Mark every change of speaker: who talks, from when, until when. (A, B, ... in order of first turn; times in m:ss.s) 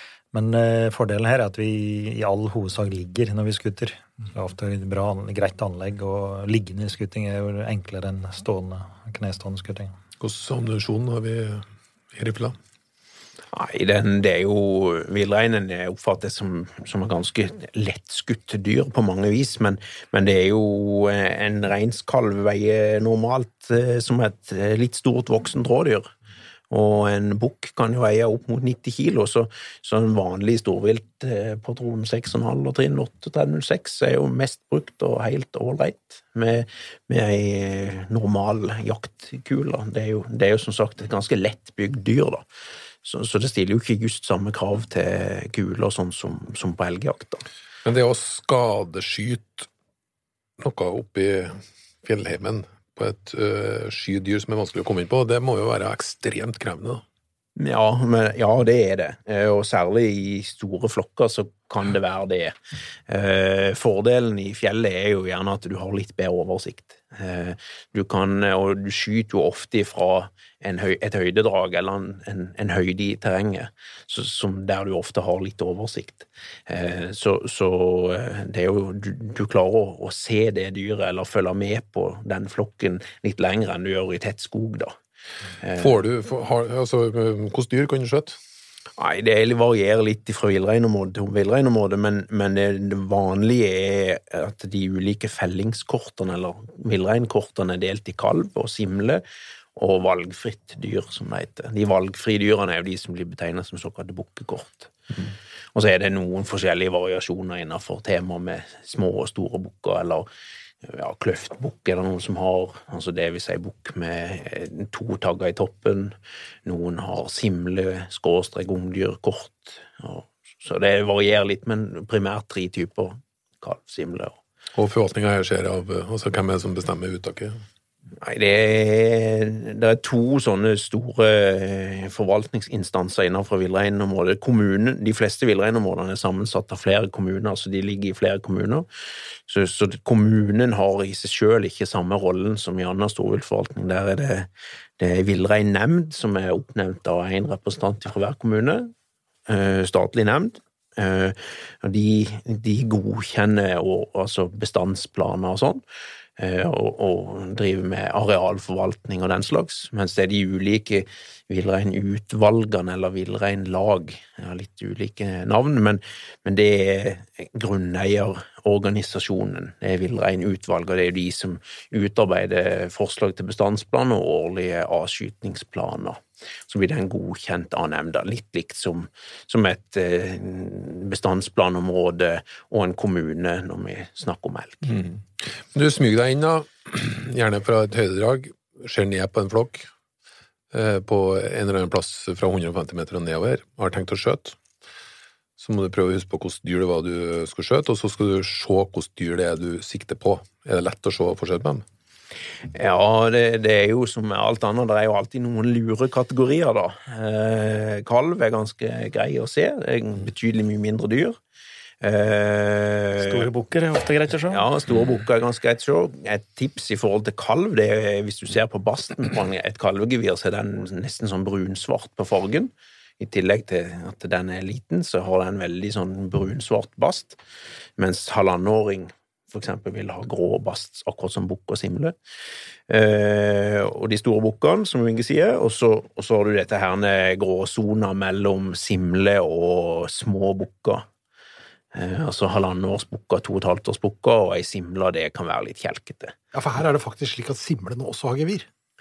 0:00.3-0:09.9 A
0:10.2-0:12.6 B
0:13.5-0:26.1 C
0:26.7-0:42.4 C
0:43.0-0:47.4 C
0:47.8-0:49.7 B
0:50.6-0:57.0 B
0:57.6-1:02.5 C
1:03.1-1:24.9 C
1:25.6-1:26.0 C
1:25.8-1:28.4 B
1:29.0-1:39.2 C
1:39.8-1:44.9 C
1:45.8-1:50.3 C
1:50.8-2:04.4 C
2:04.8-2:07.6 B
2:08.2-2:18.9 C
2:19.5-2:24.5 C
2:25.0-2:28.9 C
2:29.5-2:35.8 C
2:36.4-3:05.0 C
3:04.9-3:09.9 B
3:10.7-3:14.6 B
3:15.6-3:21.8 B
3:22.7-3:31.4 C
3:32.0-3:33.5 C
3:33.2-3:34.7 A
3:34.5-3:47.4 C
3:48.0-3:52.2 C
3:52.9-4:01.0 C
4:01.9-4:06.4 C
4:06.5-4:08.7 D